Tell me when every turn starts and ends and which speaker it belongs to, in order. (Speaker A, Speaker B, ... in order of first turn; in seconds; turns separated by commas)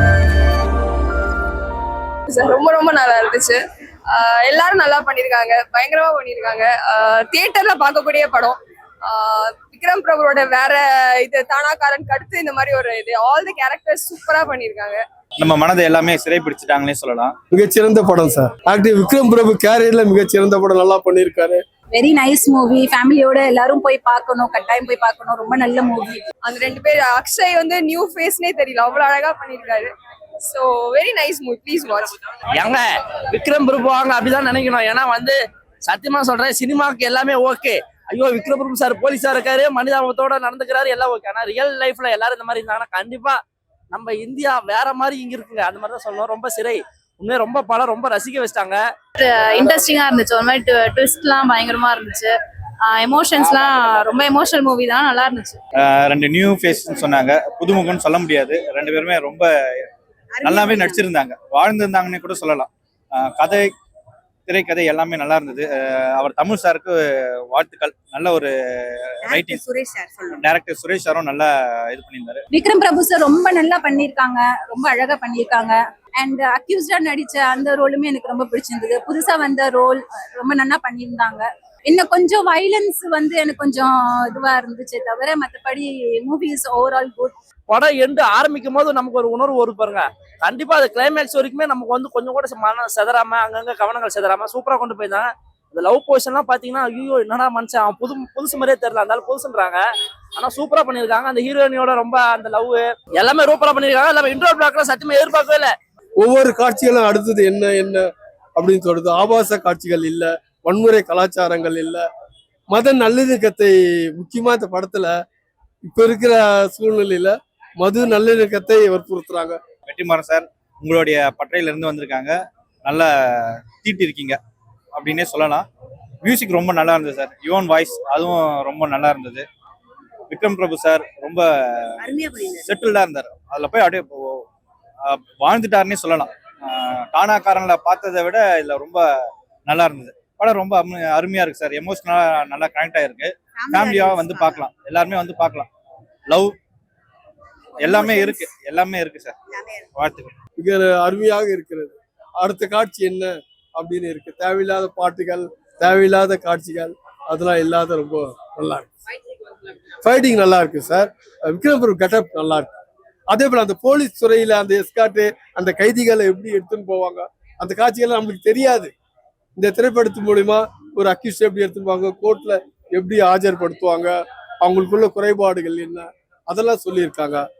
Speaker A: 2.3-15.0, Speaker B: 15.4-17.3, Speaker C: 17.5-21.6, Speaker D: 21.9-26.2, Speaker A: 26.4-29.9, Speaker A: 30.4-32.1, Speaker E: 32.5-43.4, Speaker E: 43.9-48.8, Speaker F: 49.2-52.3, Speaker F: 52.8-55.6, Speaker B: 55.8-59.5, Speaker G: 60.3-61.0, Speaker B: 60.4-63.7, Speaker B: 64.5-67.0, Speaker B: 67.5-69.6, Speaker G: 69.3-70.4, Speaker B: 70.3-72.4, Speaker D: 72.5-87.3, Speaker E: 87.7-99.8, Speaker E: 100.3-105.7, Speaker C: 106.2-108.0, Speaker C: 108.5-112.0, Speaker C: 112.7-115.1, Speaker C: 115.9-119.6, Speaker B: 119.9-124.4, Speaker B: 124.9-125.7, Speaker B: 126.2-129.4, Speaker B: 130.3-132.0, Speaker G: 132.0-132.7, Speaker B: 132.5-134.4, Speaker B: 135.1-139.0, Speaker B: 139.7-145.7, Speaker G: 143.6-144.6, Speaker B: 146.3-146.5, Speaker B: 147.8-149.3, Speaker G: 147.8-148.4, Speaker G: 149.5-149.9, Speaker B: 149.9-150.3, Speaker C: 150.6-158.9, Speaker C: 160.0-162.7, Speaker C: 163.3-168.9, Speaker C: 169.6-177.4